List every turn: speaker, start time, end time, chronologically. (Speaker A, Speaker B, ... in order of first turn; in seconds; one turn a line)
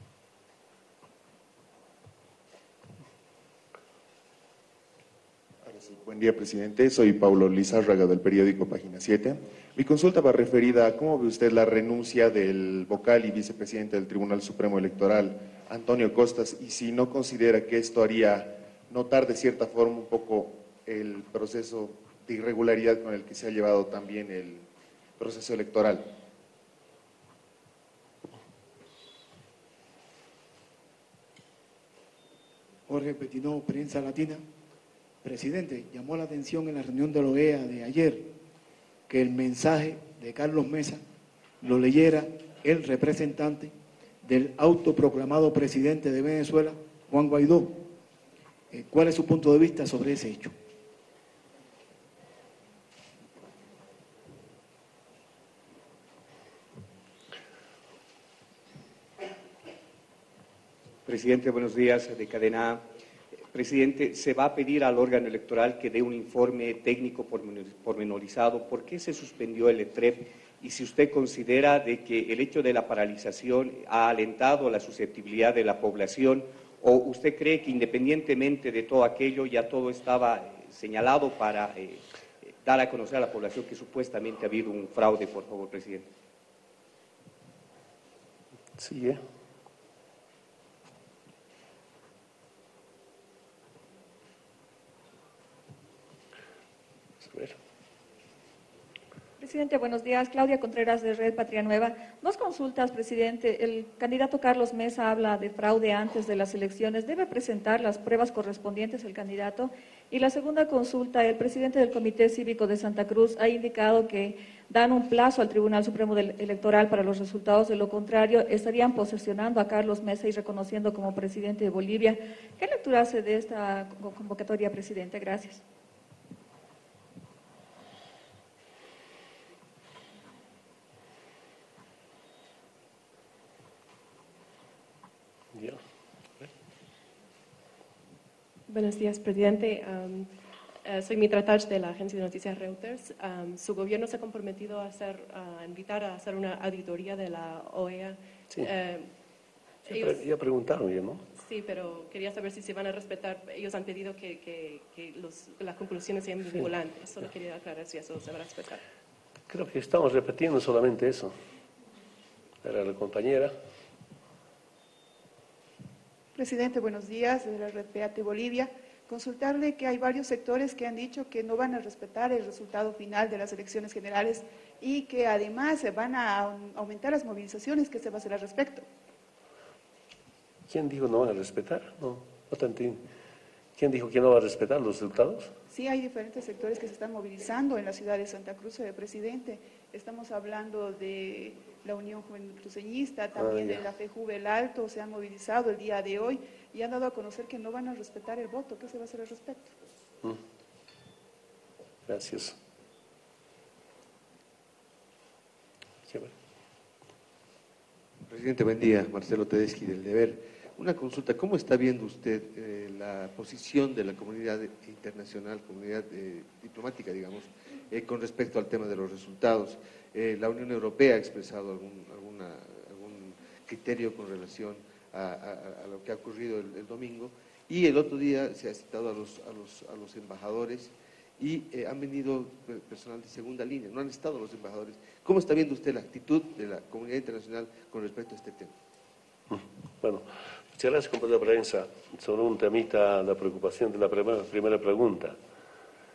Speaker A: 5.6-24.7
Speaker A: 25.2-26.1
Speaker B: 32.9-34.4
Speaker B: 35.2-38.3
Speaker B: 39.1-41.0
Speaker B: 41.6-47.8
Speaker B: 48.7-50.5
Speaker C: 61.1-62.9
Speaker C: 63.5-86.1
Speaker D: 88.8-89.2
Speaker D: 97.2-97.6
Speaker E: 99.4-125.6
Speaker D: 135.5-135.8
Speaker F: 138.7-140.3
Speaker F: 140.8-149.1
Speaker D: 149.9-151.2
Speaker F: 149.9-150.2
Speaker F: 151.4-158.8
Speaker D: 159.5-161.3
Speaker D: 162.6-163.5
Speaker G: 166.3-178.9
Speaker D: 180.7-183.0
Speaker D: 183.8-185.5
Speaker G: 185.7-199.7
Speaker D: 193.4-193.8
Speaker D: 202.1-202.6
Speaker A: 208.3-238.7
Speaker D: 239.5-245.4